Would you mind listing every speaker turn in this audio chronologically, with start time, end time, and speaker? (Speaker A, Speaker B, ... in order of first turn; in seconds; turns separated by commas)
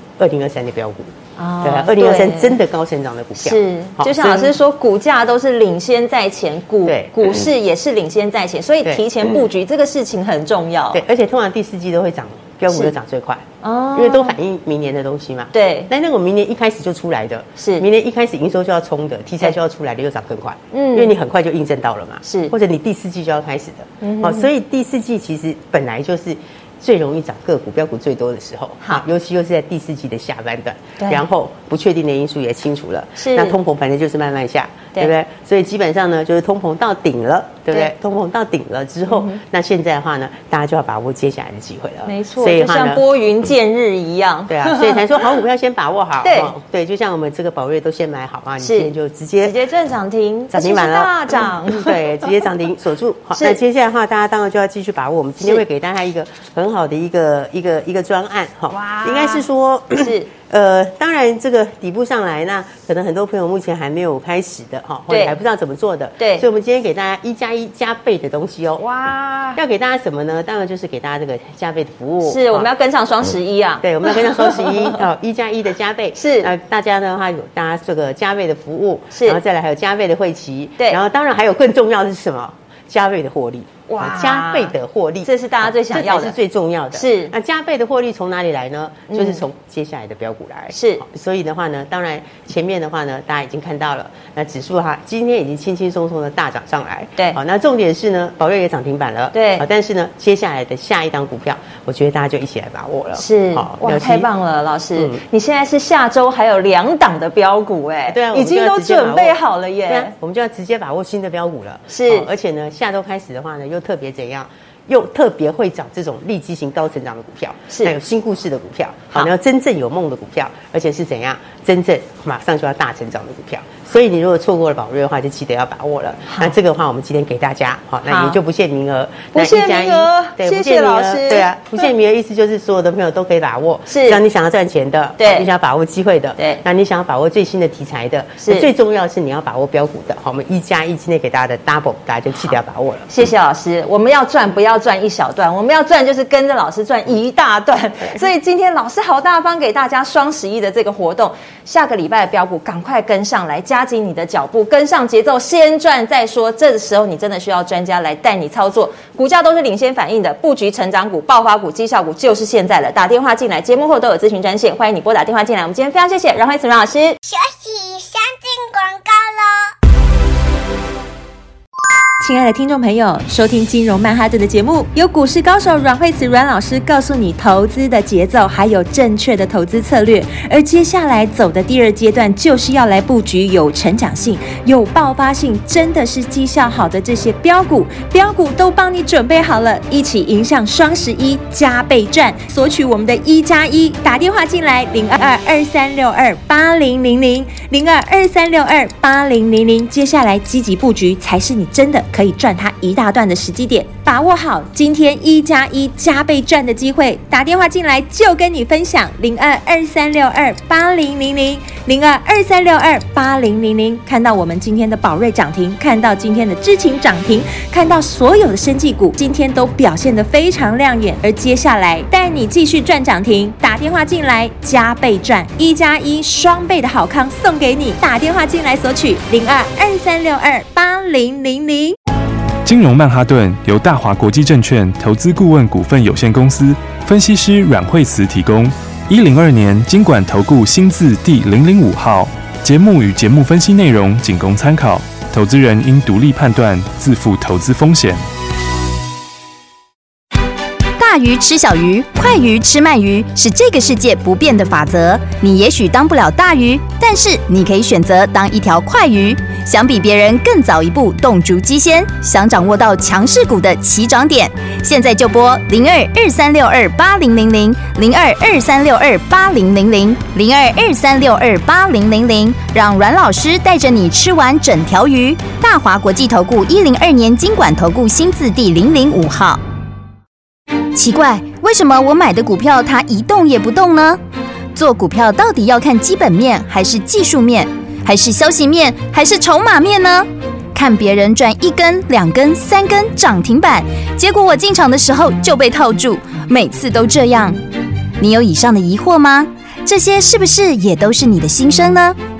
Speaker A: 0.2-1.1, Speaker B: 1.4-2.6, Speaker A: 1.6-4.6, Speaker B: 3.4-11.0, Speaker A: 6.9-7.4, Speaker A: 8.8-9.4, Speaker A: 10.9-43.0, Speaker B: 13.6-14.4, Speaker B: 15.5-15.9, Speaker B: 17.6-17.9, Speaker B: 20.7-21.1, Speaker B: 22.2-22.5, Speaker B: 24.0-24.5, Speaker B: 33.2-33.6, Speaker B: 39.1-39.4, Speaker B: 42.1-45.0, Speaker A: 44.5-49.5, Speaker B: 46.2-46.5, Speaker B: 48.6-52.3, Speaker A: 50.5-68.9, Speaker B: 53.4-53.6, Speaker B: 58.7-59.5, Speaker B: 60.0-60.3, Speaker B: 65.1-65.4, Speaker B: 66.2-66.5, Speaker B: 68.8-69.6, Speaker A: 69.5-72.7, Speaker B: 72.2-75.0, Speaker A: 73.8-104.3, Speaker B: 76.2-76.5, Speaker B: 79.1-79.4, Speaker B: 83.9-86.4, Speaker B: 86.9-87.3, Speaker B: 89.1-89.4, Speaker B: 90.7-91.0, Speaker B: 99.3-99.7, Speaker B: 103.2-110.1, Speaker A: 108.1-143.1, Speaker B: 111.9-112.3, Speaker B: 126.3-126.5, Speaker B: 128.1-128.4, Speaker B: 129.3-131.8, Speaker B: 133.9-134.2, Speaker B: 135.2-135.5, Speaker B: 136.4-136.6, Speaker B: 138.4-138.7, Speaker B: 143.1-167.2, Speaker C: 167.2-169.7, Speaker D: 172.2-232.0, Speaker E: 232.7-248.2, Speaker F: 251.0-279.6, Speaker F: 280.9-284.2, Speaker F: 284.7-297.6, Speaker F: 298.2-302.2